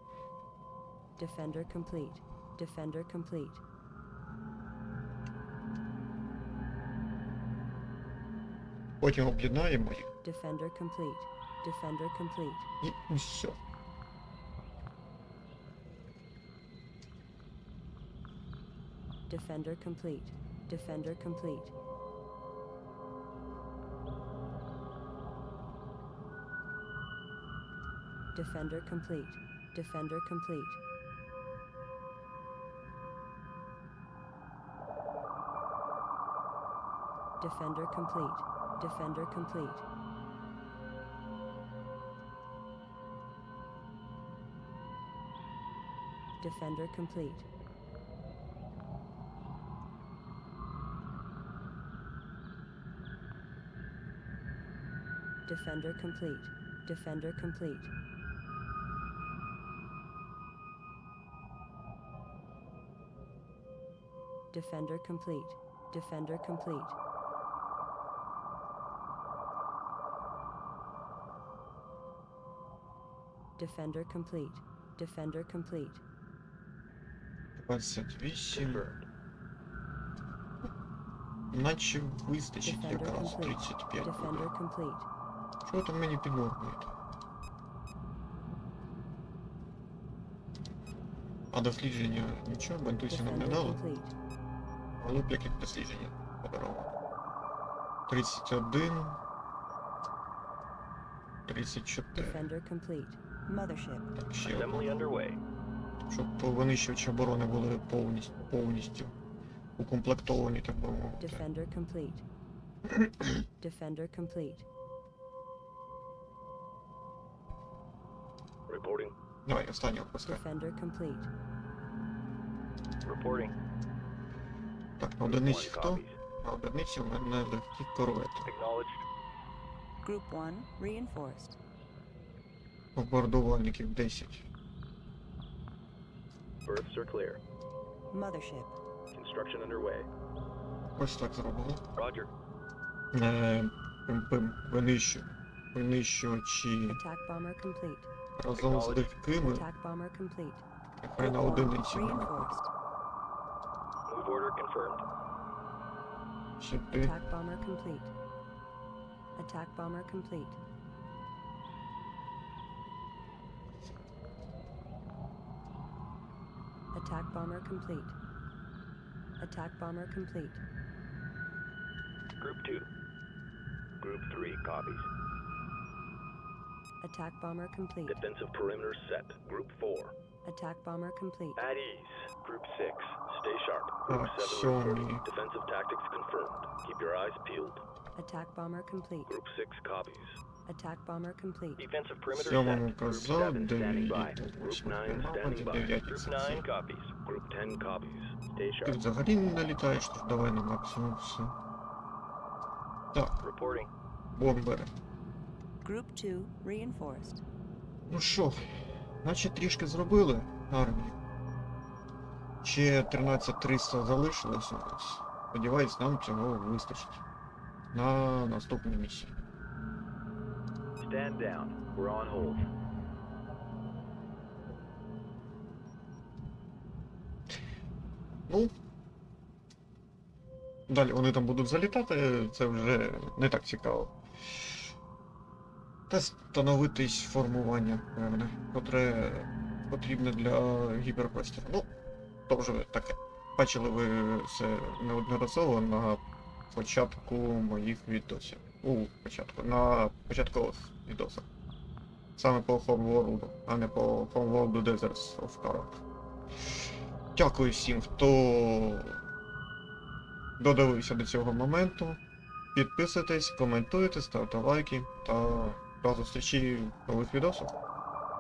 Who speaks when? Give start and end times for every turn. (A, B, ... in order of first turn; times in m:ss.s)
0:01.2-0:03.6 A
0:09.0-0:10.1 B
0:10.2-0:12.7 A
0:12.8-0:13.6 B
0:19.3-0:21.7 A
0:28.3-0:30.8 A
0:37.4-0:39.8 A
0:46.4-0:47.4 A
0:55.4-0:57.9 A
1:04.5-1:07.0 A
1:13.6-1:16.0 A
1:17.6-1:18.9 B
1:18.5-1:19.0 C
1:21.5-1:24.5 B
1:22.6-1:25.1 A
1:25.6-1:26.9 B
1:31.5-1:33.8 B
1:33.1-1:34.1 A
1:35.0-1:36.9 B
1:38.1-1:39.2 B
1:41.4-1:42.4 B
1:42.1-1:44.1 A
1:44.1-1:44.9 B
1:44.4-1:45.4 C
1:46.1-1:49.1 B
1:49.8-1:51.4 B
1:51.2-1:52.2 A
1:52.9-1:53.4 B
1:53.6-1:54.6 A
1:58.7-1:59.1 C
1:59.4-2:00.4 B
2:00.2-2:01.3 A
2:03.0-2:03.5 C
2:05.0-2:08.5 B
2:05.2-2:06.1 C
2:08.4-2:09.0 C
2:10.0-2:11.6 A
2:12.9-2:14.4 B
2:16.6-2:17.4 C
2:18.1-2:18.8 A
2:19.1-2:20.1 C
2:21.0-2:21.8 B
2:22.0-2:22.3 C
2:23.1-2:27.0 B
2:26.9-2:28.1 A
2:28.4-2:29.7 B
2:28.6-2:29.1 C
2:29.4-2:30.6 A
2:31.0-2:32.6 B
2:31.2-2:32.7 A
2:34.1-2:35.0 C
2:36.6-2:37.1 B
2:36.9-2:38.1 A
2:39.4-2:40.6 A
2:46.9-2:48.2 A
2:49.4-2:50.6 A
2:52.4-2:52.9 C
2:54.0-2:55.0 C
2:57.0-2:58.2 A
2:58.1-3:00.1 C
3:00.4-3:01.6 A
3:01.6-3:07.8 C
3:04.1-3:05.2 B
3:08.2-3:09.3 A
3:09.3-3:10.4 C
3:10.6-3:11.8 A
3:11.8-3:19.0 C
3:12.3-3:16.6 B
3:18.8-3:21.5 B
3:23.1-3:23.4 B
3:23.4-3:23.9 C
3:24.4-3:24.9 B
3:25.8-3:27.4 A
3:28.1-3:28.6 B
3:29.2-3:31.2 B
3:32.6-3:37.2 B
3:37.9-3:39.3 B
3:41.0-3:42.6 C
3:48.5-3:48.7 B
3:50.9-3:54.9 B
3:56.1-4:01.9 B
4:02.5-4:11.5 B
4:12.4-4:16.0 B
4:17.3-4:19.2 B
4:20.6-4:22.2 B
4:22.7-4:27.7 B